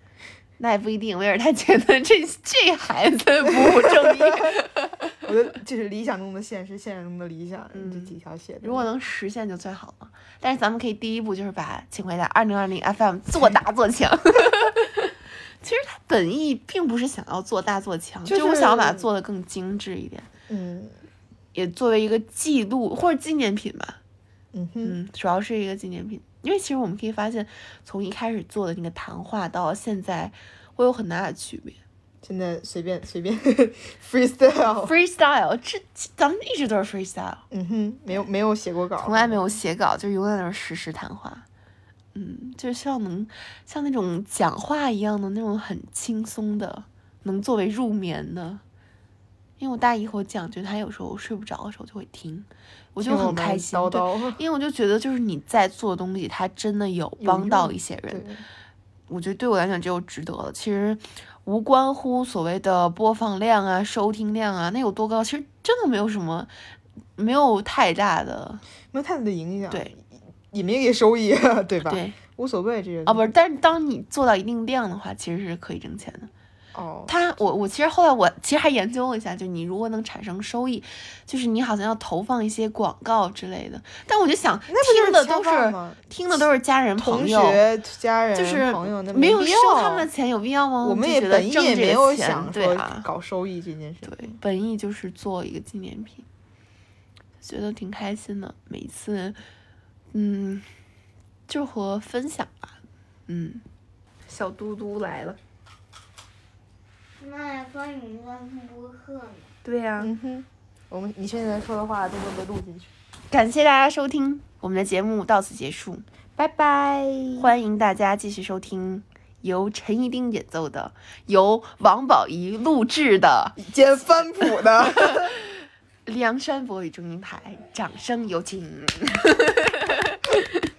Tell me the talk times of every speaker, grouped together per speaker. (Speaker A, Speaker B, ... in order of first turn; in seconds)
Speaker A: 0.6-5.2, 7.7-20.3, 21.5-24.0, 24.8-31.8, 34.8-37.5, 39.0-41.5, 42.1-48.6, 49.6-58.3, 59.1-66.5, 67.2-68.6, 71.9-72.2, 73.1-76.3, 77.1-87.6, 88.3-93.1, 94.0-96.3, 97.4-99.4, 100.1-100.7, 101.5-102.8, 103.3-103.6, 104.3-105.4, 109.6-110.1, 113.3-116.0, 117.3-123.6, 125.0-125.3, 126.1-130.6
Speaker B: 3.5-4.6, 5.2-8.9, 18.3-19.1, 20.5-20.9, 24.5-25.0, 32.2-34.9, 37.5-39.4, 53.0-54.4, 57.2-58.4, 68.9-73.3, 76.7-77.1, 84.7-86.0, 87.0-90.1, 90.8-94.3, 110.0-112.9, 116.4-117.6, 123.6-125.3
Speaker C: 107.2-109.5